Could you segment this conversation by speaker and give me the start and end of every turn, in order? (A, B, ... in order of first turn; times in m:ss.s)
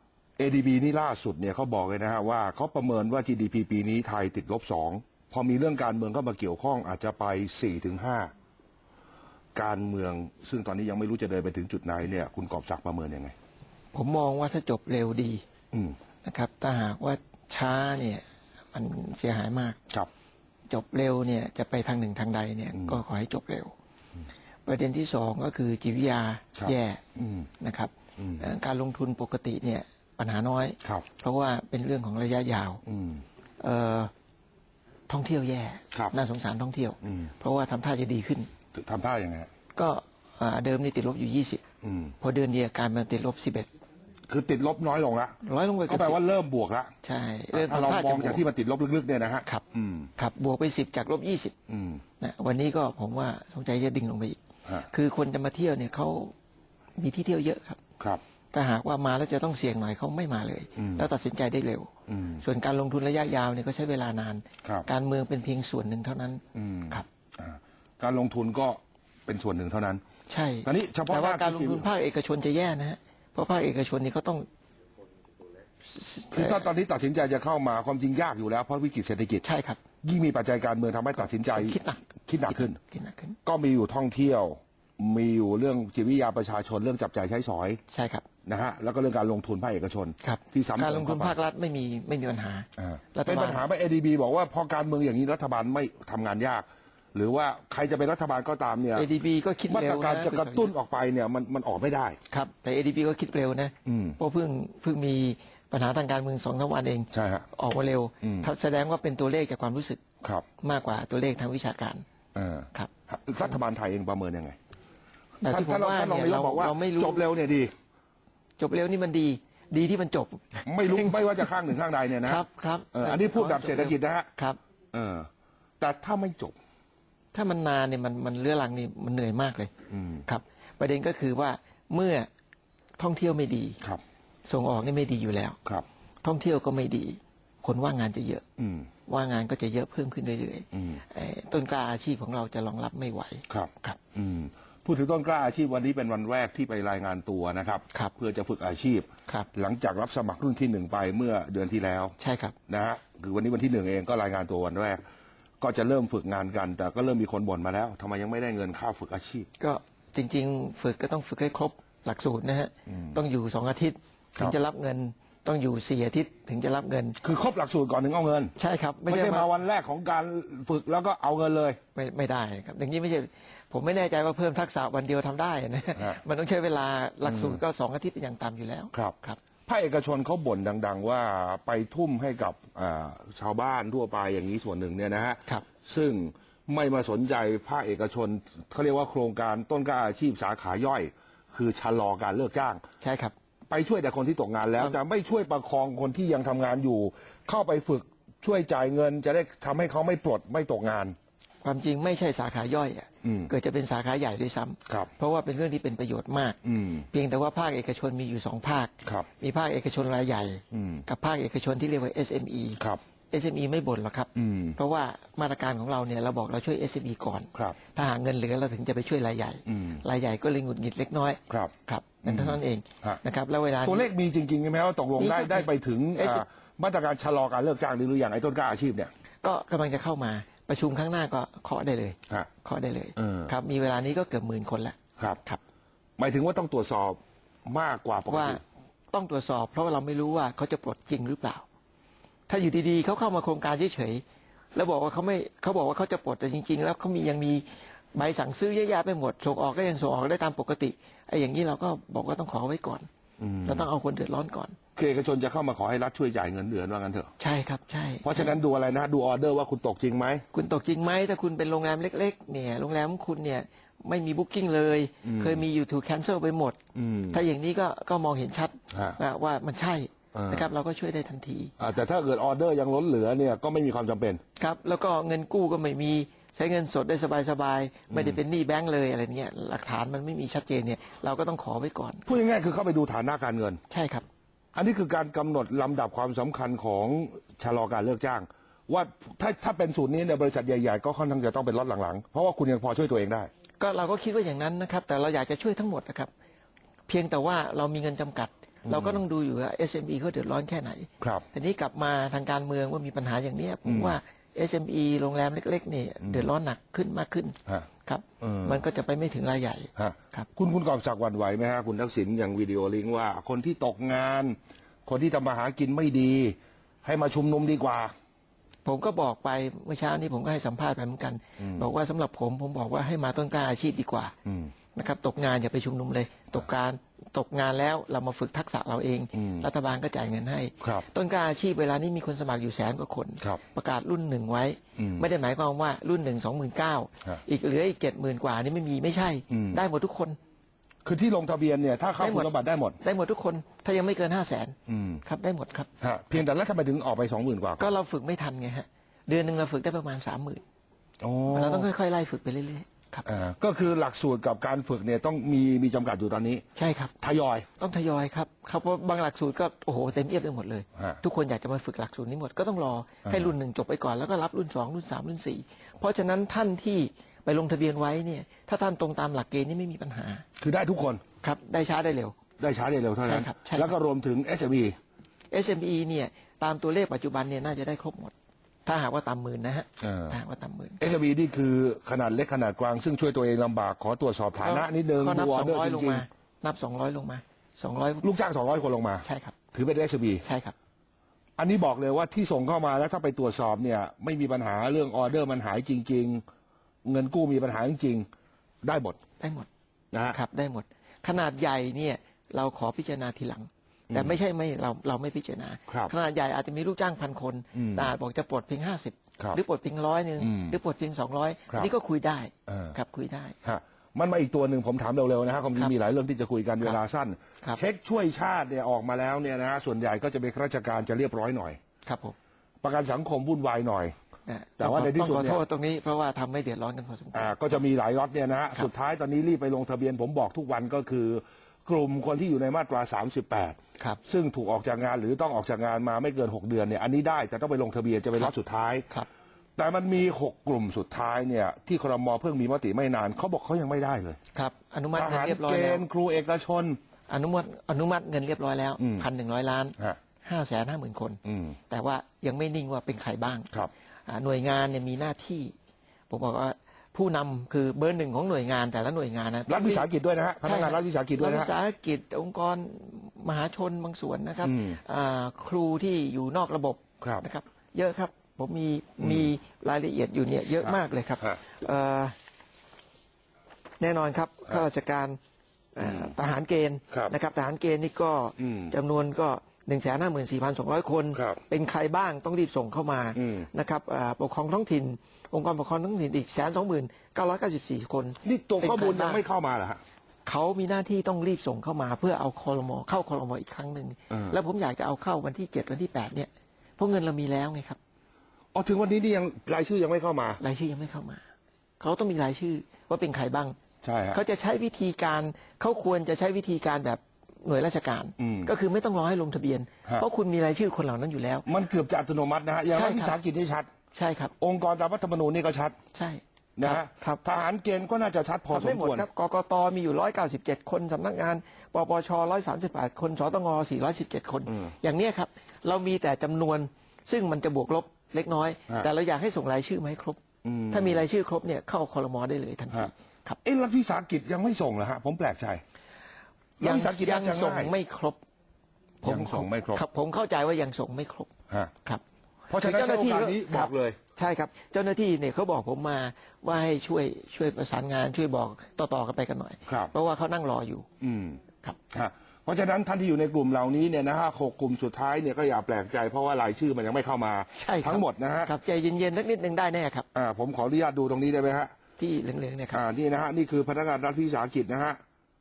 0:00.4-0:08.3 A
0:09.5-0:13.3 A
0:13.9-0:15.4 B
0:16.2-0:19.8 B
0:20.7-0:23.7 B
0:22.7-0:23.0 A
0:24.6-0:27.0 B
0:26.6-0:27.5 A
0:27.6-0:32.8 B
0:28.2-0:28.4 A
0:32.9-0:33.2 A
0:33.6-0:34.1 B
0:35.1-0:38.5 B
0:37.0-0:37.3 A
0:38.7-0:39.5 A
0:39.7-0:41.6 B
0:41.8-0:42.1 A
0:42.2-0:43.7 B
0:44.3-0:45.4 A
0:45.4-0:46.2 B
0:45.9-0:46.9 A
0:47.0-0:48.4 B
0:47.5-0:50.1 A
0:50.2-0:51.5 B
0:51.7-0:52.0 A
0:52.2-0:56.3 B
0:57.0-0:57.8 B
0:58.5-1:01.9 B
1:00.8-1:01.0 A
1:02.1-1:02.4 A
1:02.4-1:07.0 B
1:06.5-1:10.0 A
1:10.3-1:14.5 B
1:10.6-1:11.9 A
1:15.9-1:16.6 B
1:16.3-1:19.4 A
1:19.4-1:19.8 B
1:20.0-1:22.8 A
1:21.2-1:23.4 B
1:23.4-1:27.8 A
1:27.9-1:28.2 B
1:28.4-1:31.4 A
1:30.2-1:33.6 B
1:32.8-1:39.1 A
1:39.0-1:40.7 B
1:39.7-1:42.2 A
1:42.3-1:50.0 B
1:43.8-1:44.2 A
1:47.1-1:47.5 A
1:48.2-1:48.5 A
1:50.6-1:52.0 B
1:52.3-1:54.6 A
1:55.4-1:57.2 B
1:55.5-1:57.7 A
1:58.6-2:04.6 B
2:00.6-2:04.3 A
2:04.9-2:05.3 A
2:05.8-2:06.6 A
2:07.3-2:09.7 B
2:09.9-2:10.2 A
2:10.2-2:12.3 B
2:13.0-2:13.8 B
2:14.4-2:15.6 B
2:16.2-2:18.4 B
2:18.6-2:18.9 A
2:19.1-2:24.0 B
2:20.7-2:21.0 A
2:23.5-2:32.1 A
2:32.2-2:32.5 B
2:32.7-2:35.0 A
2:35.6-2:39.5 A
2:39.6-2:47.2 B
2:47.2-2:48.5 A
2:48.6-2:49.5 B
2:49.1-2:51.8 A
2:51.9-2:59.4 B
2:56.0-2:56.2 A
2:57.2-2:57.6 A
2:58.9-3:12.8 A
3:13.0-3:13.3 B
3:13.7-3:21.1 A
3:21.6-3:26.6 B
3:23.2-3:23.5 A
3:26.6-3:27.0 A
3:27.1-3:44.1 B
3:30.7-3:31.0 A
3:34.4-3:34.8 A
3:39.7-3:40.0 A
3:42.2-3:43.2 A
3:43.8-3:49.1 A
3:45.2-3:46.4 B
3:49.4-3:55.6 B
3:53.2-3:53.5 A
3:56.2-3:58.6 A
3:58.3-4:01.6 B
4:02.5-4:13.1 B
4:13.4-4:13.9 A
4:13.6-4:14.8 B
4:15.0-4:17.3 A
4:17.4-4:18.6 B
4:18.2-4:20.4 A
4:20.5-4:26.8 B
4:25.2-4:25.6 A
4:26.9-4:27.4 A
4:27.3-4:31.8 B
4:28.9-4:29.2 A
4:30.3-4:30.7 A
4:31.8-4:34.4 A
4:34.6-4:42.2 B
4:38.1-4:38.4 A
4:42.2-4:43.8 A
4:43.9-4:44.2 B
4:44.7-4:53.5 A
4:53.8-4:56.3 B
4:57.1-5:10.5 B
4:58.8-4:59.2 A
5:01.2-5:01.4 A
5:03.8-5:04.2 A
5:06.2-5:06.5 A
5:08.4-5:08.8 A
5:10.0-5:18.1 A
5:18.8-5:24.3 B
5:21.6-5:21.9 A
5:24.4-5:24.7 A
5:24.9-5:40.4 B
5:29.3-5:29.7 A
5:30.8-5:31.0 A
5:35.0-5:35.2 A
5:39.5-5:39.8 A
5:41.0-5:43.0 A
5:42.2-5:45.9 B
5:44.9-5:45.2 A
5:46.0-5:47.9 A
5:47.8-5:50.6 B
5:51.2-5:51.9 A
5:51.5-5:53.3 B
5:53.2-5:56.6 A
5:56.8-5:57.1 B
5:57.2-5:57.7 A
5:57.8-6:10.4 B
6:03.2-6:03.5 A
6:10.6-6:11.2 A
6:11.4-6:12.4 B
6:12.6-6:15.0 A
6:13.2-6:13.9 B
6:15.5-6:18.3 B
6:18.8-6:21.0 B
6:20.0-6:20.4 A
6:21.0-6:26.2 A
6:24.6-6:28.2 B
6:28.2-6:30.4 A
6:29.2-6:29.6 B
6:30.4-6:30.7 B
6:31.6-6:36.4 A
6:37.0-6:38.2 A
6:38.8-6:39.2 A
6:39.4-6:39.7 B
6:40.1-6:40.4 A
6:40.3-6:53.6 B
6:44.1-6:44.4 A
6:45.9-6:46.1 A
6:47.7-6:48.1 A
6:50.4-6:50.8 A
6:52.7-6:53.0 A
6:53.6-7:01.8 A
7:02.0-7:02.4 B
7:02.8-7:04.1 A
7:04.4-7:07.8 B
7:04.8-7:05.6 A
7:07.3-7:19.1 A
7:19.8-7:24.4 A
7:24.5-7:26.0 B
7:25.1-7:27.0 A
7:27.3-7:35.7 B
7:29.0-7:29.2 A
7:31.4-7:31.7 A
7:36.3-7:40.1 B
7:39.7-7:41.7 A
7:40.6-7:52.4 B
7:44.6-7:45.0 A
7:49.2-7:49.5 A
7:50.8-7:51.6 A
7:54.0-7:55.4 B
7:55.9-8:09.4 B
7:56.0-7:56.3 A
7:58.6-7:58.9 A
8:01.3-8:01.6 A
8:03.4-8:03.7 A
8:08.4-8:10.0 A
8:10.4-8:18.0 B
8:14.3-8:14.6 A
8:18.7-8:20.6 A
8:20.6-8:21.4 B
8:22.0-8:23.8 B
8:24.0-8:24.4 A
8:24.3-8:31.7 B
8:28.4-8:28.7 A
8:31.7-8:33.9 A
8:32.9-8:33.4 B
8:34.1-8:34.5 B
8:34.6-8:36.0 A
8:36.1-8:37.4 B
8:36.8-8:39.2 A
8:38.7-8:53.6 B
8:50.6-8:51.2 A
8:53.6-8:55.8 A
8:56.8-8:57.9 A
8:56.8-8:58.4 B
8:59.2-9:01.5 B
8:59.2-9:00.0 A
9:02.7-9:04.2 A
9:02.7-9:11.1 B
9:11.2-9:11.6 A
9:12.1-9:18.7 A
9:17.7-9:20.2 B
9:20.3-9:21.9 A
9:22.2-9:23.0 B
9:22.9-9:25.2 A